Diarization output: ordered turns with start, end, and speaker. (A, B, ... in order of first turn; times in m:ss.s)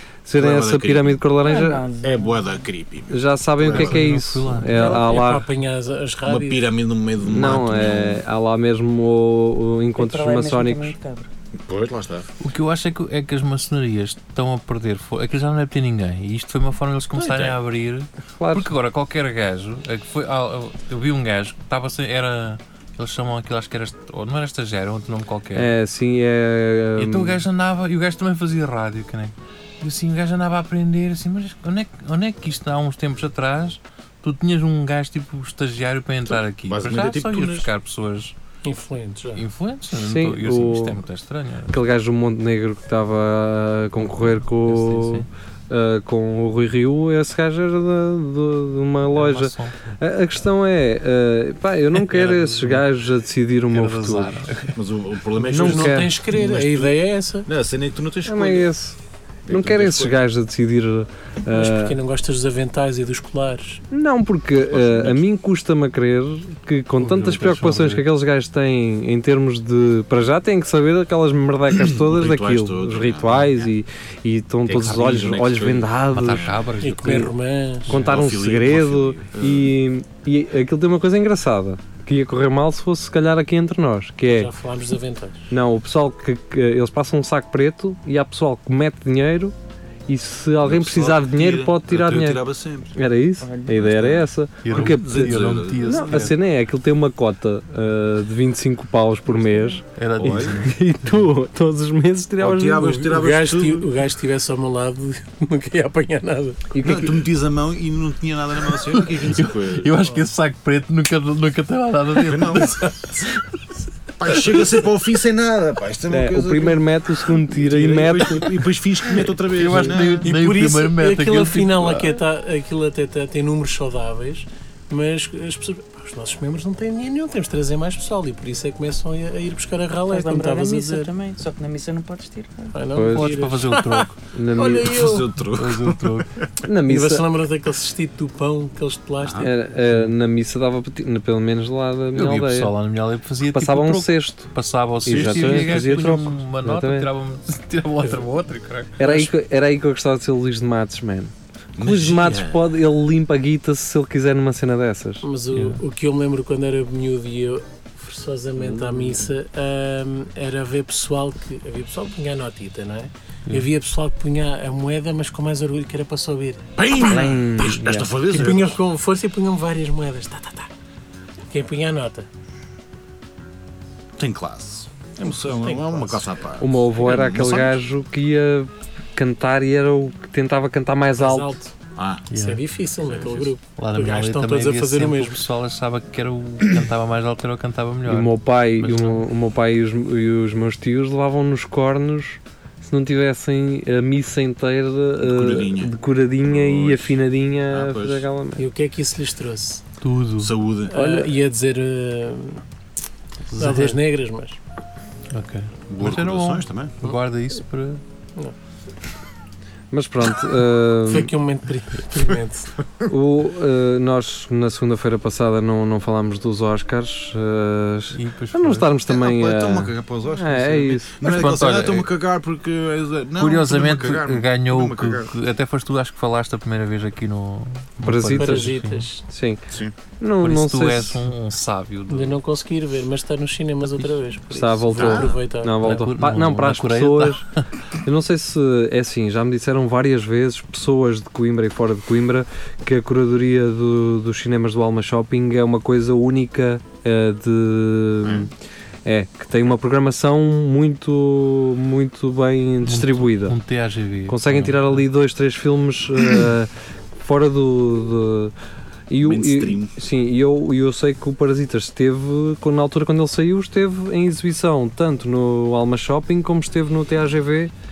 0:00.2-0:01.8 A
0:00.4-0:01.3 B
0:01.4-0:02.4 C
0:02.0-0:04.0 B
0:03.1-0:05.4 A
0:03.7-0:04.9 D
0:04.7-0:06.6 E
0:04.7-0:05.2 C
0:06.2-0:08.2 B
0:07.2-0:11.0 A
0:10.0-0:11.3 C
0:11.6-0:12.3 B
0:12.4-0:25.7 D
0:17.2-0:17.5 B
0:18.4-0:18.7 A
0:25.5-0:27.4 A
0:27.0-0:38.3 D
0:36.7-0:37.7 B
0:38.6-0:39.4 E
0:39.4-0:41.8 D
0:39.9-0:41.0 A
0:41.7-0:54.5 A
0:44.1-0:45.3 D
0:49.1-0:49.9 D
0:52.0-0:52.8 D
0:53.7-0:54.7 D
0:54.7-0:58.7 B
0:55.4-0:57.5 E
0:55.5-0:56.1 A
0:58.2-1:02.0 A
0:59.5-1:00.2 B
1:01.5-1:03.8 E
1:03.9-1:16.5 A
1:04.6-1:05.2 B
1:07.0-1:08.0 D
1:11.7-1:13.7 B
1:14.6-1:16.6 B
1:16.1-1:17.3 D
1:16.8-1:17.9 E
1:17.9-1:24.5 A
1:17.9-1:19.7 B
1:24.3-1:25.4 E
1:25.5-1:29.5 A
1:30.1-1:32.4 A
1:30.6-1:33.0 B
1:32.9-1:43.2 A
1:33.4-1:33.9 C
1:33.8-1:36.2 B
1:34.6-1:36.4 D
1:39.9-1:40.7 D
1:40.2-1:40.7 B
1:42.4-1:43.9 B
1:43.0-1:46.7 E
1:46.7-1:47.3 A
1:46.8-1:49.9 B
1:48.9-1:53.3 D
1:52.2-1:52.9 B
1:54.2-2:00.3 B
1:56.1-1:58.6 A
1:59.5-2:02.2 D
2:00.2-2:11.1 E
2:10.1-2:12.8 C
2:12.7-2:15.3 E
2:13.0-2:13.3 A
2:13.0-2:14.3 D
2:14.3-2:15.0 A
2:14.7-2:16.4 B
2:15.4-2:16.3 D
2:16.6-2:17.3 A
2:16.8-2:19.6 E
2:19.2-2:19.5 B
2:19.4-2:22.7 A
2:22.1-2:29.2 D
2:23.5-2:24.5 A
2:25.0-2:27.1 A
2:25.0-2:25.9 B
2:29.0-2:35.2 A
2:31.8-2:32.6 B
2:35.2-2:47.3 E
2:35.5-2:35.8 D
2:38.6-2:39.3 A
2:46.8-2:48.8 B
2:47.0-2:48.1 A
2:48.3-2:50.7 E
2:51.5-2:52.3 E
2:54.2-2:57.8 B
2:55.2-2:56.2 E
2:56.6-3:01.5 A
3:01.2-3:01.7 E
3:02.0-3:02.3 B
3:02.3-3:02.6 D
3:02.3-3:05.4 E
3:03.0-3:03.5 B
3:03.8-3:09.2 D
3:08.0-3:18.6 A
3:15.2-3:18.2 B
3:18.6-3:19.8 E
3:20.0-3:20.5 D
3:20.4-3:20.9 B
3:20.9-3:22.6 E
3:20.9-3:21.3 A
3:23.5-3:24.0 D
3:23.6-3:24.6 E
3:25.3-3:28.0 D
3:25.9-3:26.9 B
3:29.9-3:31.3 A
3:31.1-3:32.7 E
3:33.1-3:41.1 A
3:38.1-3:38.9 D
3:39.1-3:45.3 B
3:41.2-3:42.1 D
3:43.4-3:49.1 D
3:48.0-3:49.6 A
3:48.3-3:49.2 E
3:50.2-3:51.2 A
3:50.4-3:52.4 D
3:52.1-3:55.8 E
3:54.5-4:08.5 A
3:54.9-3:55.4 B
3:55.8-3:57.6 D
4:08.2-4:08.5 B
4:09.0-4:13.6 A
4:12.8-4:15.0 D
4:14.3-4:18.5 A
4:19.1-4:27.7 A
4:19.2-4:19.9 B